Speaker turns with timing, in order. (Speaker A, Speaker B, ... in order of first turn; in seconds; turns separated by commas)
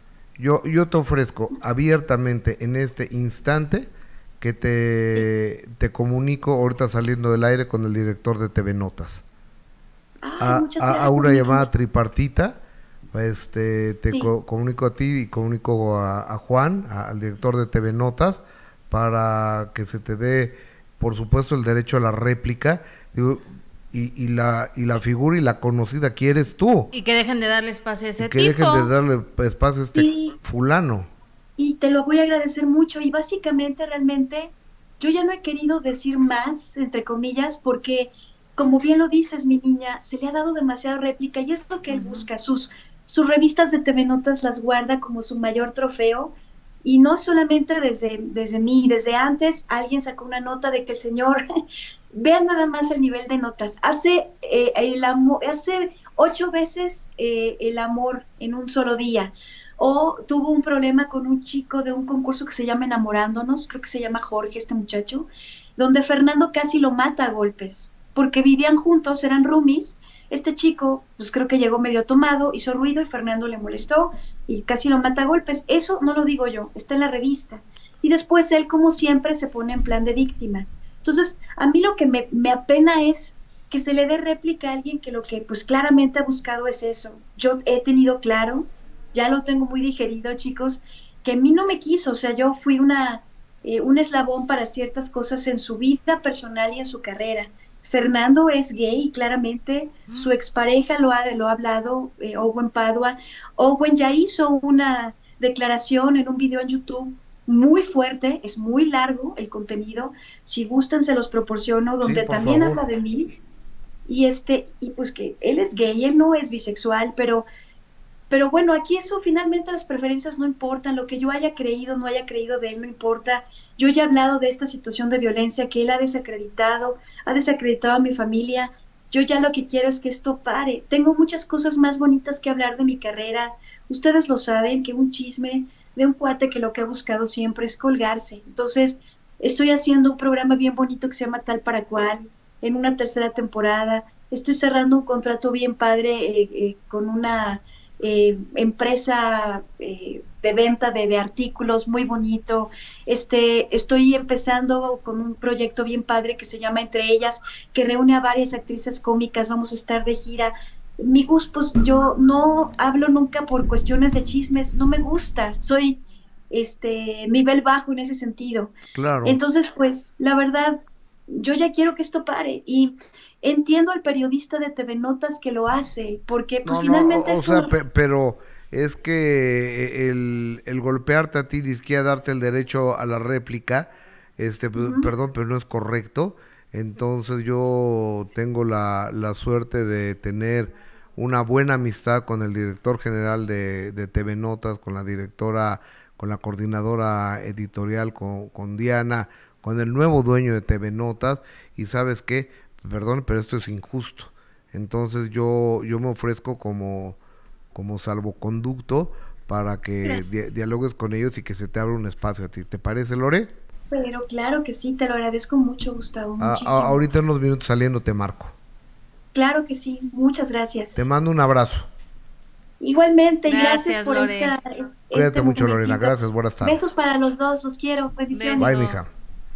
Speaker A: 0.4-9.2, Speaker B: 10.2-11.7, Speaker A: 10.4-12.6, Speaker A: 13.1-26.9, Speaker C: 26.9-28.9, Speaker A: 28.2-31.1, Speaker B: 29.9-30.4, Speaker B: 31.6-46.3, Speaker C: 41.9-42.3, Speaker B: 46.8-51.4, Speaker B: 52.1-113.4, Speaker A: 112.0-112.8, Speaker B: 114.1-117.5, Speaker B: 118.3-168.7, Speaker A: 168.9-169.4, Speaker B: 169.2-177.8, Speaker A: 176.6-207.2, Speaker B: 184.8-185.1, Speaker A: 207.7-213.5, Speaker B: 210.0-210.3, Speaker B: 213.9-217.0, Speaker A: 216.4-218.5, Speaker B: 219.3-221.1, Speaker A: 221.0-221.9, Speaker B: 222.8-228.8, Speaker C: 223.5-224.6, Speaker A: 225.1-226.8, Speaker C: 228.3-229.0, Speaker A: 228.6-229.1